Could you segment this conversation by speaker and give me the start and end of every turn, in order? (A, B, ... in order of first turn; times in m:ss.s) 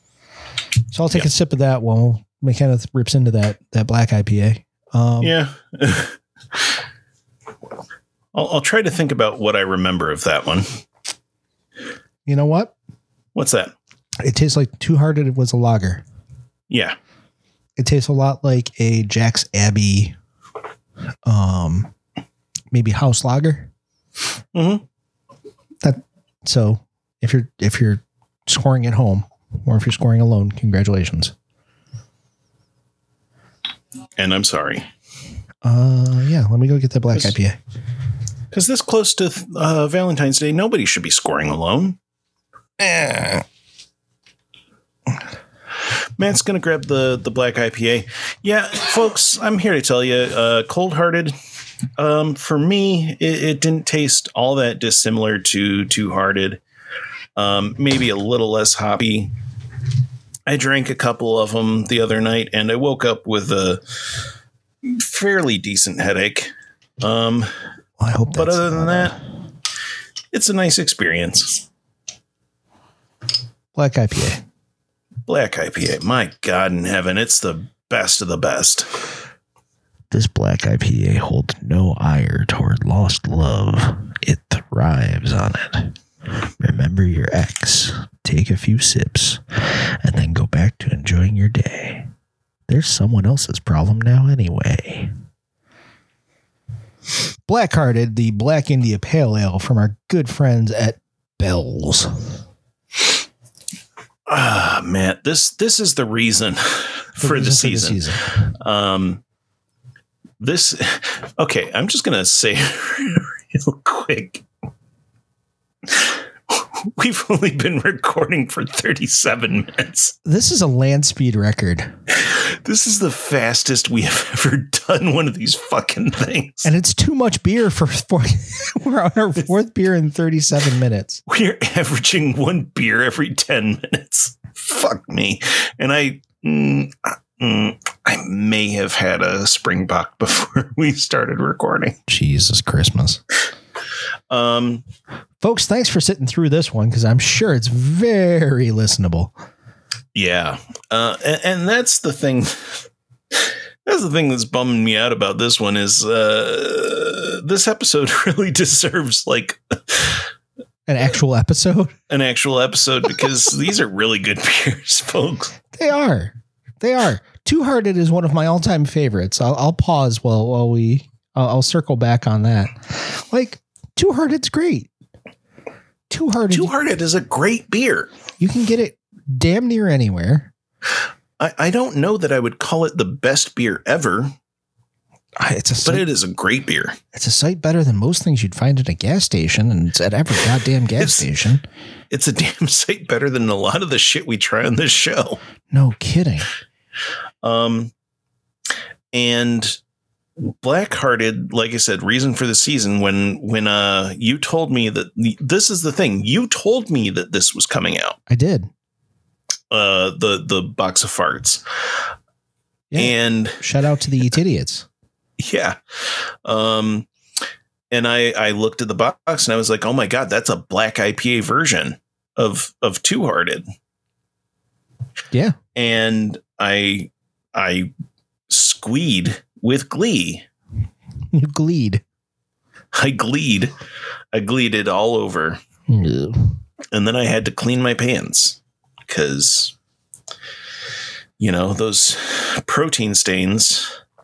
0:00.9-0:05.3 A
0:05.2-0:06.1 B
0:08.3-0:10.7 B
0:12.2-0:12.7 A
0:13.3-0:13.7 B
0:14.2-0:16.0 A
0:16.7-0:17.0 B
0:17.8-0:20.1 A
0:21.2-0:21.9 A
0:22.7-0:23.7 A
0:24.5-0:24.8 B
0:25.8-0:31.3 A
0:34.2-0:34.9 B
0:35.6-0:37.6 A
0:38.5-0:42.0 B
0:46.2-0:51.3 B
0:52.0-0:56.6 B
0:57.4-0:59.3 B
1:00.5-1:03.8 B
1:04.8-1:07.5 B
1:08.0-1:09.2 A
1:08.3-1:09.1 B
1:10.3-1:11.6 B
1:13.8-1:14.4 A
1:15.3-1:18.9 B
1:20.1-1:26.0 A
1:26.6-1:32.1 A
1:32.7-1:35.1 A
1:37.5-1:42.3 A
1:44.3-1:49.2 B
1:47.2-1:48.3 A
1:50.4-1:54.4 B
1:55.9-2:00.2 B
2:00.2-2:01.9 A
2:02.1-2:06.7 B
2:06.6-2:11.2 A
2:11.3-2:22.0 B
2:22.1-2:23.2 A
2:24.3-2:24.8 B
2:25.4-2:29.3 A
2:30.1-2:40.2 B
2:40.9-2:41.9 A
2:42.1-2:45.6 B
2:45.7-2:54.9 A
2:56.1-2:56.7 A
2:56.5-2:58.1 B
2:58.4-3:00.5 A
3:01.4-3:04.3 B
3:05.4-3:06.0 A
3:05.8-3:07.0 B
3:07.1-3:11.6 A
3:11.0-3:11.2 B
3:12.1-3:15.4 B
3:15.7-3:16.5 A
3:17.4-3:17.9 B
3:19.1-3:19.8 B
3:20.4-3:28.2 B
3:28.3-3:28.7 A
3:29.7-3:31.6 B
3:32.9-3:34.8 A
3:33.0-3:33.6 B
3:35.4-3:35.8 B
3:36.4-3:37.1 B
3:37.9-3:43.6 B
3:45.7-3:47.9 B
3:48.5-3:50.4 B
3:51.3-3:52.0 A
3:52.9-3:53.7 B
3:54.3-3:55.6 B
3:55.9-3:56.6 A
3:56.9-3:59.7 B
4:01.4-4:03.9 B